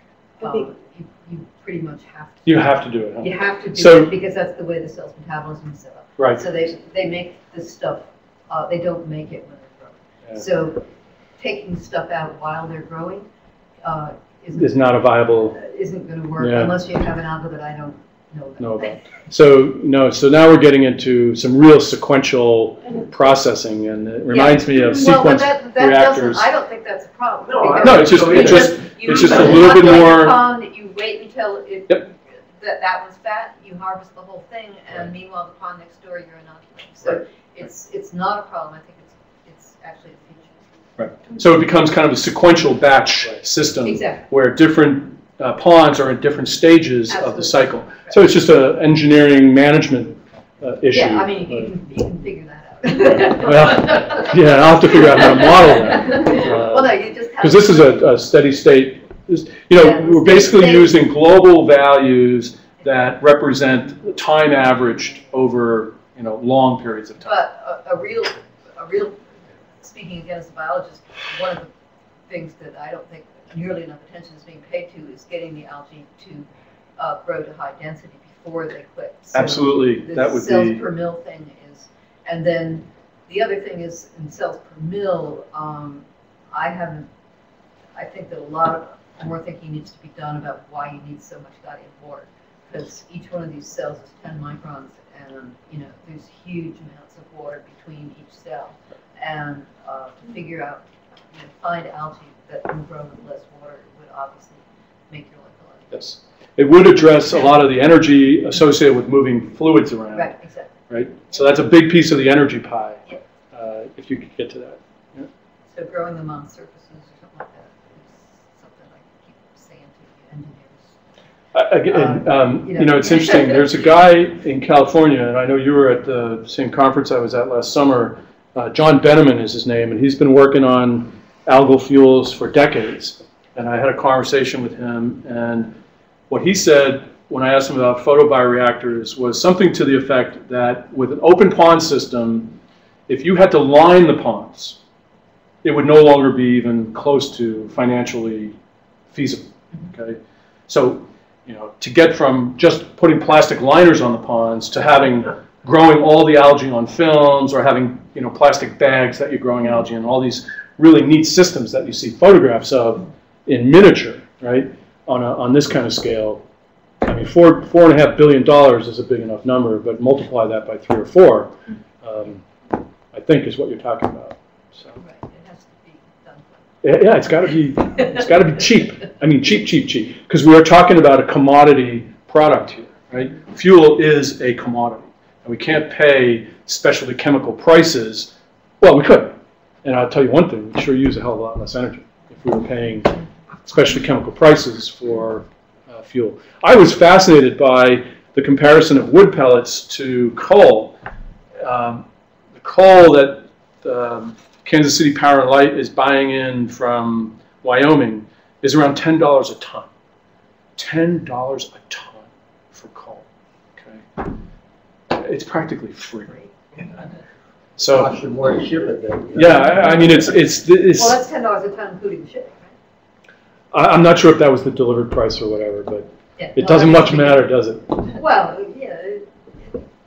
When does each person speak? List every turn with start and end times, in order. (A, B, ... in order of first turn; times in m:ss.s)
0:00.4-0:10.9 A
0:02.4-0:04.1 B
0:06.2-0:06.5 B
0:11.4-0:13.3 A
0:13.8-0:19.1 A
0:14.6-0:15.6 B
0:16.4-0:16.8 B
0:18.6-0:26.4 B
0:24.3-0:40.8 A
0:27.5-0:29.2 C
0:27.8-0:30.4 B
0:41.0-0:51.7 B
0:43.8-0:44.3 A
0:47.1-0:48.3 A
0:50.9-0:58.1 A
0:53.3-1:07.4 B
0:59.7-1:01.0 A
1:07.2-1:11.7 A
1:12.3-1:27.1 A
1:19.3-1:20.8 B
1:28.0-1:46.0 A
1:45.9-1:50.4 B
1:50.1-1:51.6 A
1:50.9-1:53.0 B
1:53.5-1:55.3 B
1:55.7-2:01.0 A
2:01.5-2:15.8 B
2:01.9-2:03.7 A
2:16.3-2:22.6 B
2:23.1-2:24.8 B
2:25.6-2:28.6 B
2:29.1-2:46.4 B
2:47.0-2:52.4 B
2:53.1-2:55.0 B
2:55.0-2:56.7 A
2:56.8-3:21.0 B
3:21.6-3:22.0 B
3:22.6-3:29.9 B
3:30.8-3:33.2 B
3:33.8-3:34.3 B
3:35.1-3:36.5 B
3:37.8-3:38.1 B
3:37.8-3:40.3 C
3:39.3-3:41.2 B
3:41.0-3:42.7 A
3:43.7-3:48.2 B
3:46.4-3:47.5 A
3:48.1-3:49.3 A